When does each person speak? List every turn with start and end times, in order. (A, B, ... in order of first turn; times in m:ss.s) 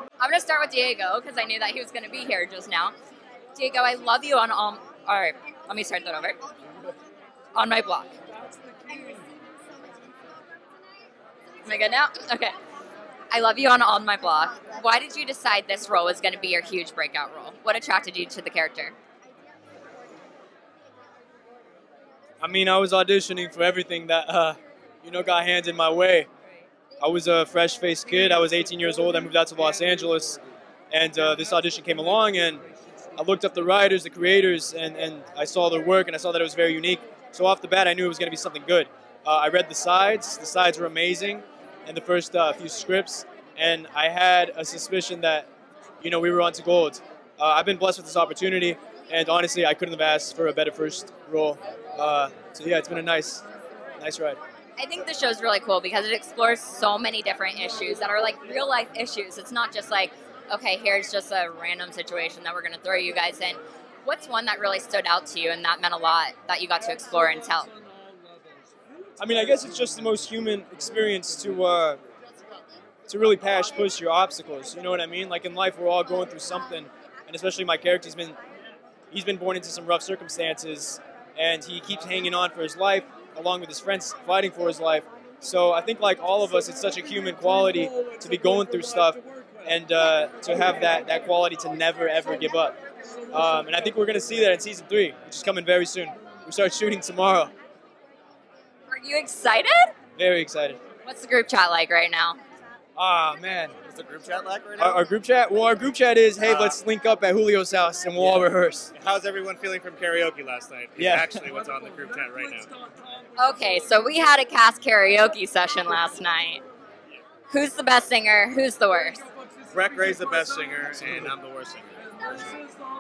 0:00.2-0:02.9 A
0:03.6-0:06.4 A
0:07.6-0:08.2 A
0:11.6-0:12.5 A
0:13.3-0:19.0 A
0:22.4-0:26.3 B
0:27.0-0:30.4 B
0:30.9-0:32.6 B
0:33.2-0:45.5 B
0:46.0-0:53.4 B
0:54.0-0:54.4 B
0:54.8-1:07.7 A
1:09.2-1:12.0 B
1:13.1-1:18.4 B
1:19.1-1:32.8 B
1:33.3-1:37.5 B
1:38.9-1:39.9 A
1:40.2-1:40.8 B
1:41.0-1:42.4 A
1:43.0-1:43.8 B
1:43.9-1:45.0 C
1:44.8-1:48.9 B
1:46.4-1:46.8 C
1:48.2-1:52.7 C
1:51.0-1:51.4 B
1:53.4-1:56.6 A
1:57.5-1:59.2 A
1:59.7-2:02.4 C
2:00.9-2:01.3 B